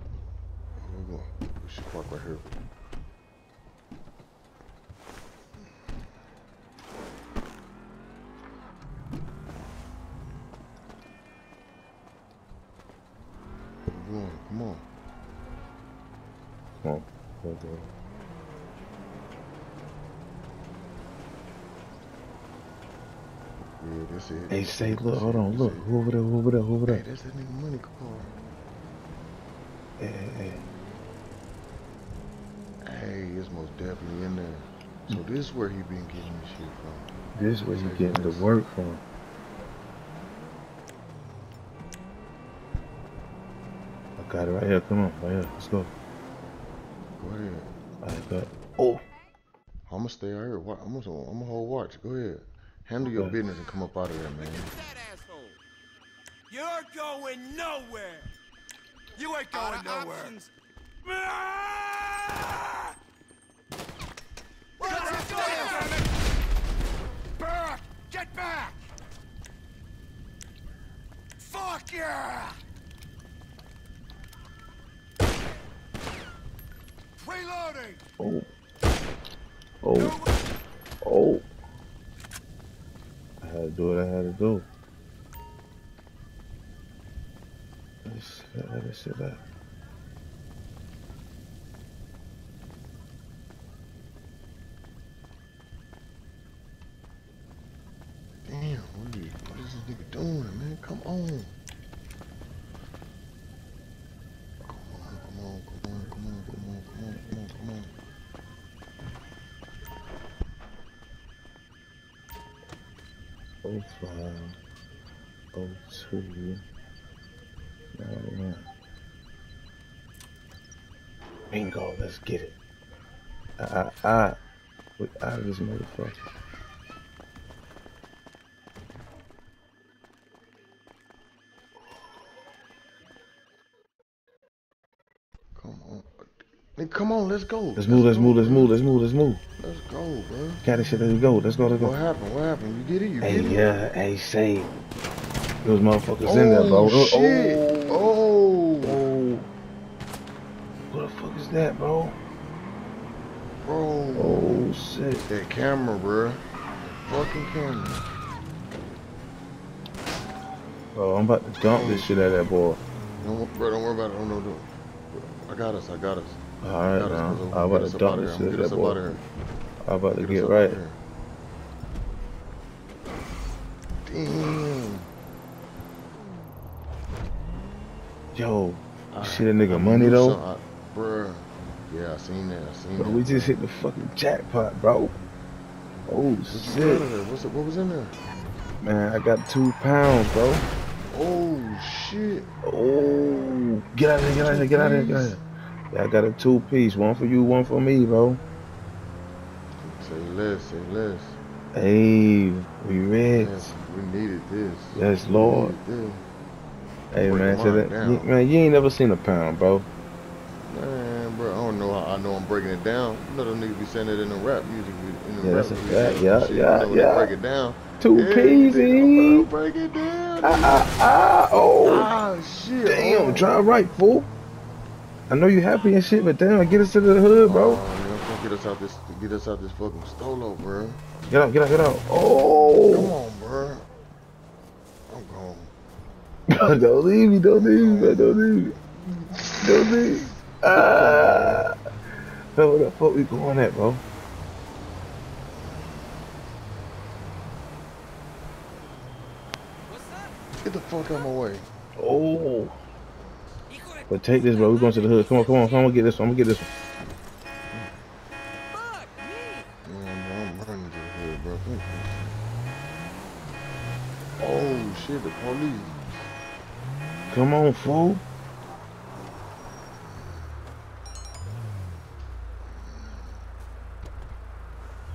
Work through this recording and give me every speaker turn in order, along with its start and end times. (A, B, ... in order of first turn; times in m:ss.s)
0:00.8-0:02.5 A
0:13.9-0:14.8 A
0:16.8-0:17.9 B
0:23.8-0:25.9 A
0:24.5-0:27.0 B
0:26.9-0:28.3 A
0:30.0-0:30.6 B
0:32.8-0:37.1 A
0:37.4-0:39.0 B
0:37.7-0:38.5 A
0:44.2-0:45.9 B
0:47.2-0:47.7 A
0:48.0-0:49.0 B
0:49.9-0:54.8 A
0:56.8-0:58.2 C
0:59.5-1:00.4 C
1:05.0-1:05.9 C
1:08.0-1:08.7 C
1:11.6-1:12.4 C
1:17.2-1:18.0 C
1:18.2-1:18.5 B
1:19.8-1:20.2 B
1:21.0-1:21.4 B
1:23.4-1:24.7 B
1:28.0-1:29.4 B
1:38.4-1:41.5 A
1:44.6-1:47.9 A
1:53.6-1:54.6 B
1:55.5-1:56.6 B
1:58.0-1:58.6 B
2:01.5-2:02.6 B
2:03.6-2:04.4 B
2:05.0-2:06.1 B
2:15.6-2:18.7 A
2:17.8-2:19.4 B
2:19.6-2:20.6 A
2:20.6-2:21.9 B
2:21.8-2:23.7 A
2:23.2-2:24.7 B
2:25.6-2:28.1 B
2:26.2-2:29.0 A
2:28.8-2:29.5 B
2:30.9-2:32.2 B
2:33.6-2:34.6 A
2:34.1-2:35.2 B
2:35.3-2:38.1 A
2:40.9-2:42.8 B
2:41.6-2:42.5 A
2:43.2-2:49.2 A
2:46.6-2:49.2 B
2:49.8-2:50.8 B
2:50.1-2:51.0 A
2:54.0-2:55.1 A
2:58.3-3:00.4 B
2:59.1-3:03.5 A
3:03.0-3:05.2 B
3:06.1-3:07.1 B
3:06.5-3:08.2 A
3:08.8-3:10.7 B
3:11.1-3:12.5 A
3:12.6-3:18.4 B
3:14.4-3:15.4 A
3:19.8-3:21.4 A
3:21.7-3:23.7 B
3:23.3-3:26.2 A
3:24.9-3:25.7 B
3:27.1-3:29.9 B
3:27.2-3:28.3 A
3:30.7-3:40.9 A
3:35.4-3:37.3 B
3:38.0-3:39.5 B
3:40.4-3:42.1 B
3:41.8-3:43.6 A
3:42.8-3:44.3 B
3:45.3-3:47.8 B
3:47.4-3:51.0 A
3:51.3-3:53.1 B
3:52.9-3:53.8 A
3:55.1-3:55.7 A
3:56.5-3:58.7 B
3:57.5-3:58.4 A
3:59.3-4:01.7 A
3:59.6-4:01.7 B
4:02.5-4:04.0 B
4:10.6-4:11.7 A
4:12.0-4:12.8 B
4:14.1-4:16.7 B
4:19.8-4:22.4 A
4:24.4-4:26.0 A
4:27.3-4:28.2 B